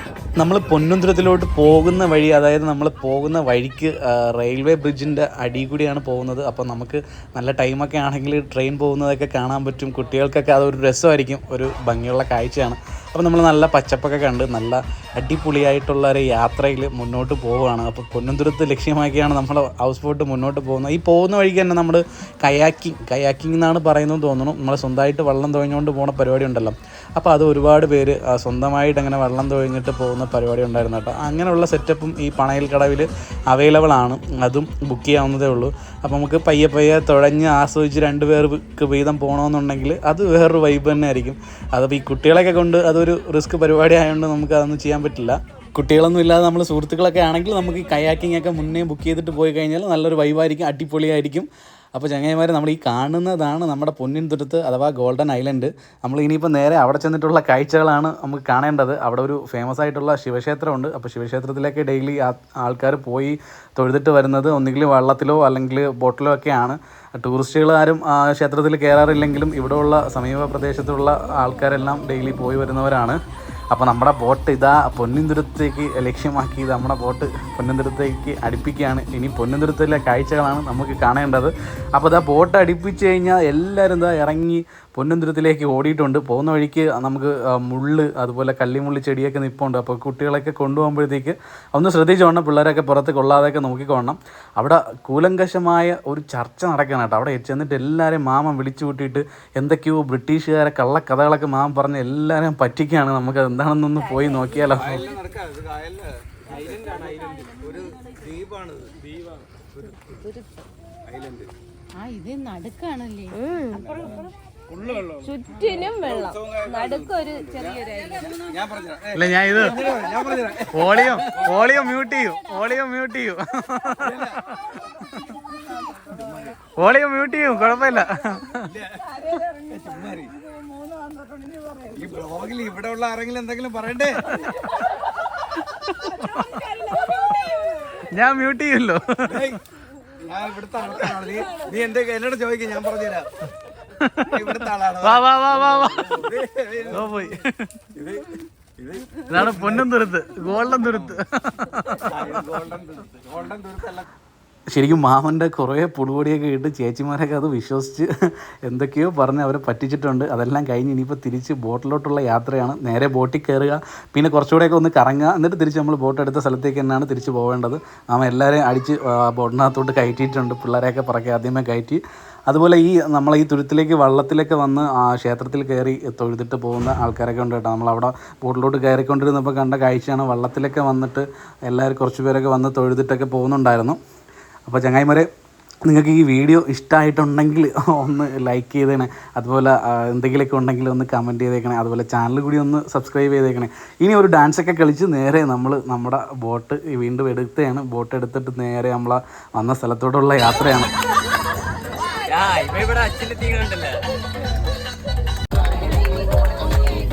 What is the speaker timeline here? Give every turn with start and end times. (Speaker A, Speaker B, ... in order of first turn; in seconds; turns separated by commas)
Speaker A: 0.4-73.2, Speaker A: 73.7-105.1, Speaker B: 104.7-109.1, Speaker B: 109.6-110.1, Speaker B: 111.0-111.5, Speaker C: 112.0-114.0, Speaker B: 113.7-114.2, Speaker B: 114.7-117.8, Speaker C: 115.2-118.4, Speaker B: 118.3-121.7, Speaker A: 119.1-119.8, Speaker A: 120.7-125.3, Speaker B: 124.0-124.4, Speaker B: 126.0-126.6, Speaker A: 126.8-128.7, Speaker B: 128.7-130.3, Speaker C: 130.8-131.8, Speaker B: 131.9-134.5, Speaker A: 134.3-134.8, Speaker A: 135.5-137.2, Speaker C: 137.0-137.7, Speaker A: 138.0-139.5, Speaker B: 139.3-139.6, Speaker B: 140.2-143.3, Speaker A: 143.9-146.3, Speaker B: 144.2-145.2, Speaker B: 145.8-147.3, Speaker A: 146.9-147.9, Speaker B: 147.9-149.8, Speaker A: 149.3-152.4, Speaker B: 152.0-154.1, Speaker A: 154.7-158.1, Speaker A: 158.6-184.0, Speaker A: 184.7-185.3, Speaker A: 185.8-200.9, Speaker B: 202.3-204.0